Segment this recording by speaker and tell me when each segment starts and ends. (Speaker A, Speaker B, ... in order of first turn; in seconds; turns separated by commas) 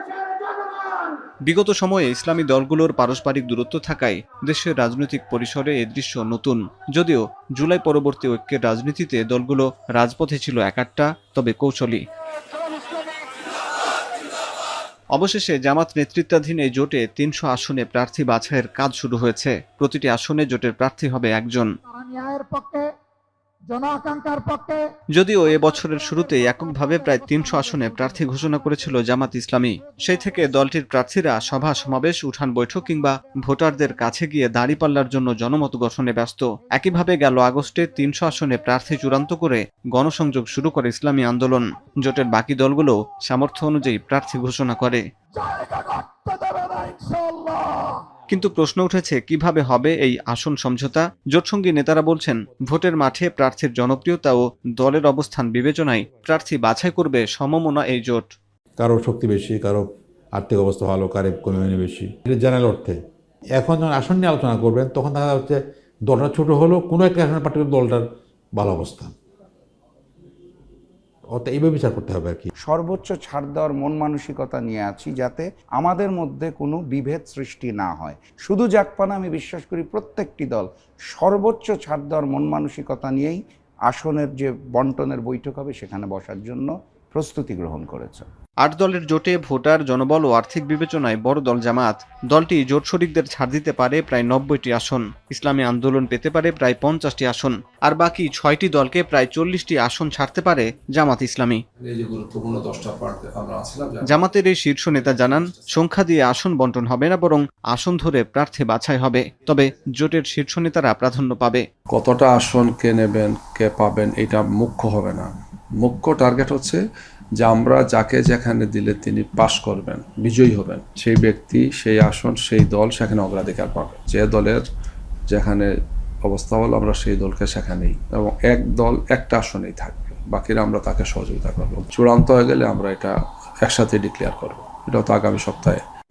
Speaker A: 1.4-12.1, Speaker A: 15.1-21.7, Speaker B: 21.9-22.9, Speaker B: 23.7-24.9, Speaker A: 25.1-45.0, Speaker B: 45.4-48.0, Speaker A: 48.3-58.3, Speaker C: 58.8-63.0, Speaker C: 63.6-69.1, Speaker C: 71.3-72.5, Speaker D: 72.6-88.3, Speaker A: 88.6-101.6, Speaker E: 101.8-104.2, Speaker A: 104.1-111.6, Speaker E: 105.0-105.7, Speaker E: 111.9-116.8, Speaker E: 117.4-124.6, Speaker E: 125.3-125.7, Speaker E: 126.2-135.8